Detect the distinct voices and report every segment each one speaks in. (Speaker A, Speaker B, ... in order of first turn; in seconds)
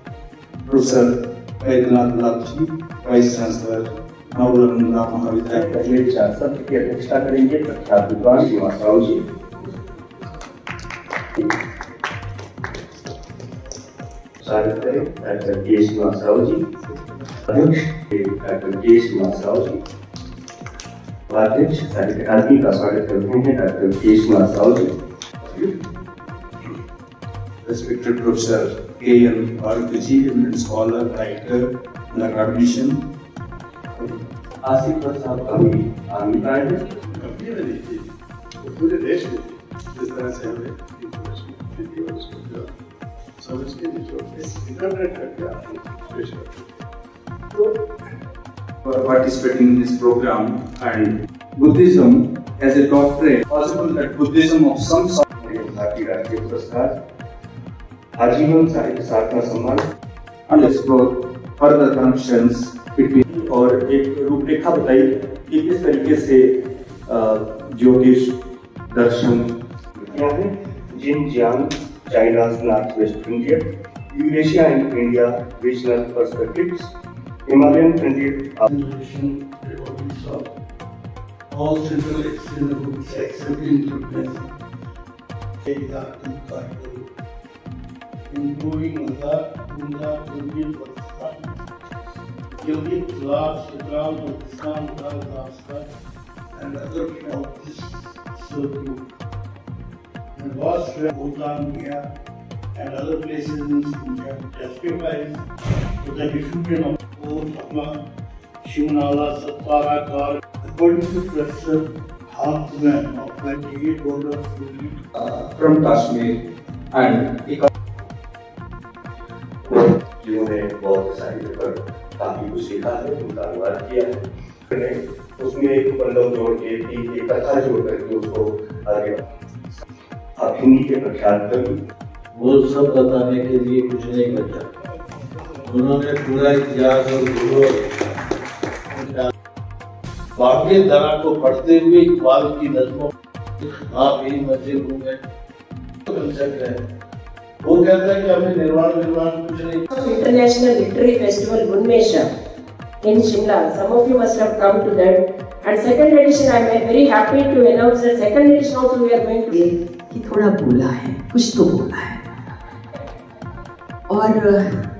Speaker A: 0.7-5.7, 27.6-33.0, 48.8-55.3, 60.5-63.3, 115.2-116.4, 116.9-117.7
Speaker B: 5.5-9.2, 14.4-16.6, 17.5-19.8, 21.3-24.9, 34.0-36.8, 55.4-57.0, 58.1-59.9, 63.3-66.5, 67.1-68.3, 68.9-76.9, 77.5-78.7, 119.7-129.2, 130.4-131.8
Speaker C: 37.1-38.0, 38.6-42.7, 43.4-46.8, 47.5-47.9
Speaker D: 78.7-80.5, 81.5-84.5, 85.6-87.1, 88.3-91.7, 92.5-95.9, 96.5-99.1, 100.3-102.1, 102.8-105.5, 106.0-108.0, 108.6-115.0
Speaker E: 132.3-134.7, 135.6-138.2, 138.9-139.3, 140.4-145.2, 146.1-146.8, 147.6-149.9
Speaker F: 149.9-152.3, 153.0-159.6
Speaker G: 159.5-162.5, 164.1-164.8